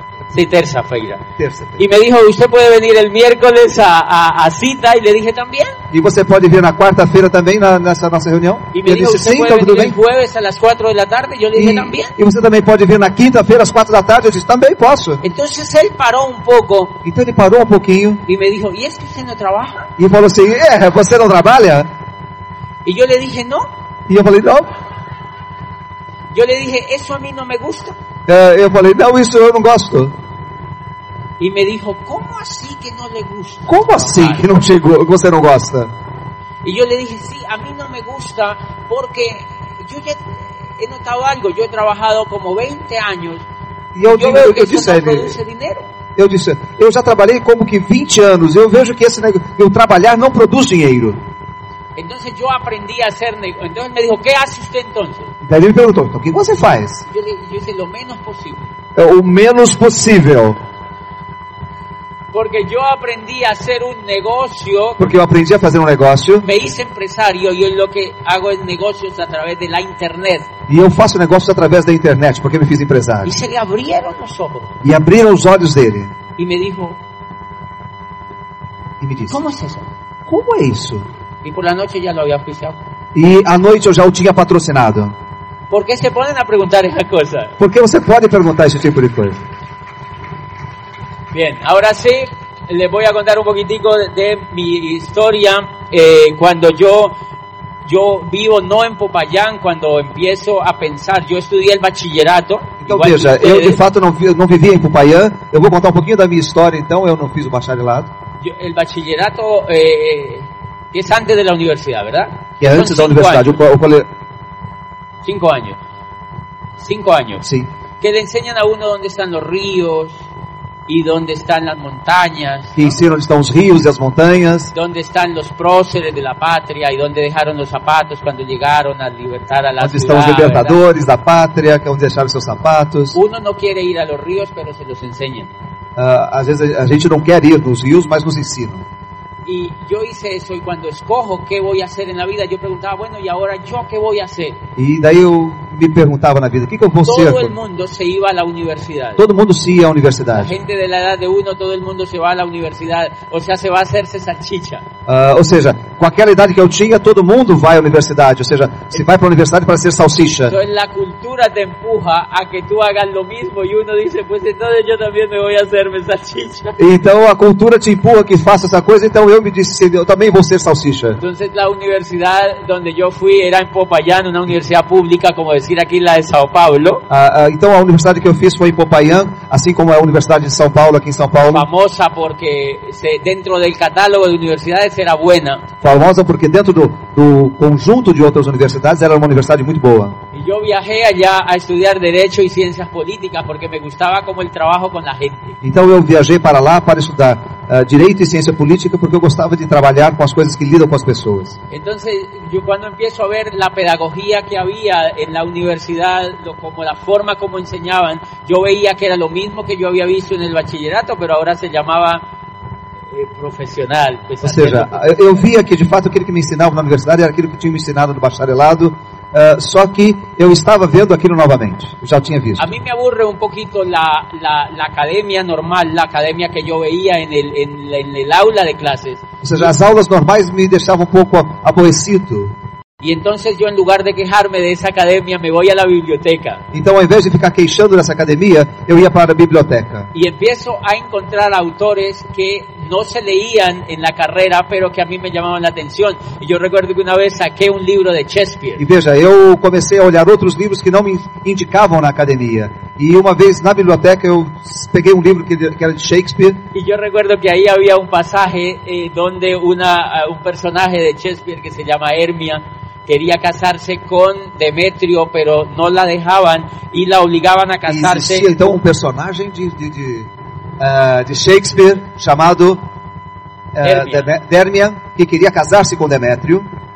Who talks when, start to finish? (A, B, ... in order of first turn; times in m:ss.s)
0:00.3-0:01.2 A
0:01.4-0:01.8 B
0:01.8-0:05.8 A
0:05.9-0:10.0 B
0:08.7-0:12.2 A
0:11.5-0:15.2 B
0:15.2-0:17.0 A
0:17.0-0:18.2 B
0:18.2-0:19.9 A
0:20.0-0:21.9 B
0:22.8-0:23.7 A
0:24.1-0:24.7 B
0:26.3-0:28.0 A
0:28.3-0:30.1 B
0:31.4-0:34.5 A
0:33.7-0:35.9 B
0:36.6-0:43.4 A
0:43.9-0:45.4 B
0:44.0-0:45.9 A
0:46.2-0:51.2 B
0:52.0-0:55.3 A
0:55.4-0:57.0 B
0:57.1-0:58.7 A
0:58.9-1:00.6 B
1:02.3-1:05.0 A
1:05.0-1:06.5 B
1:06.4-1:10.5 A
1:10.7-1:13.4 B
1:13.2-1:14.7 A
1:14.8-1:16.1 B
1:16.4-1:17.0 A
1:19.0-1:19.4 B
1:19.3-1:19.9 A
1:20.3-1:21.0 B
1:21.4-1:22.8 A
1:23.1-1:25.1 B
1:25.7-1:27.5 A
1:27.6-1:29.4 B
1:31.3-1:37.1 A
1:37.8-1:43.8 A
1:42.8-1:48.1 B
1:48.4-1:53.5 A
1:52.6-1:54.1 B
1:55.2-1:55.8 A
1:56.8-1:57.4 A
1:57.4-1:57.7 B
1:58.0-2:00.2 A
2:00.9-2:02.9 A
2:02.8-2:04.7 B
2:04.7-2:10.8 A
2:09.8-2:13.2 B
2:13.1-2:15.5 A
2:16.0-2:18.8 B
2:19.4-2:24.6 A
2:24.8-2:27.6 B
2:27.0-2:29.2 A
2:29.2-2:30.5 B
2:30.3-2:34.8 A
2:35.1-2:40.5 B
2:40.5-2:46.8 A
2:46.8-2:51.2 B
2:51.1-2:57.0 A
2:57.1-3:01.6 B
3:01.5-3:05.6 A
3:05.8-3:10.2 B
3:10.3-3:15.6 A
3:15.6-3:21.6 B
3:21.7-3:32.2 A
3:33.1-3:35.5 A
3:34.4-3:42.7 B
3:42.6-3:49.2 A
3:49.4-3:52.5 B
3:53.0-3:56.6 A
3:56.7-4:00.1 B
4:00.1-4:08.8 A
4:08.8-4:16.6 B
4:16.7-4:28.4 A
4:27.8-4:32.8 B
4:33.7-4:36.7 B
4:33.8-4:34.3 A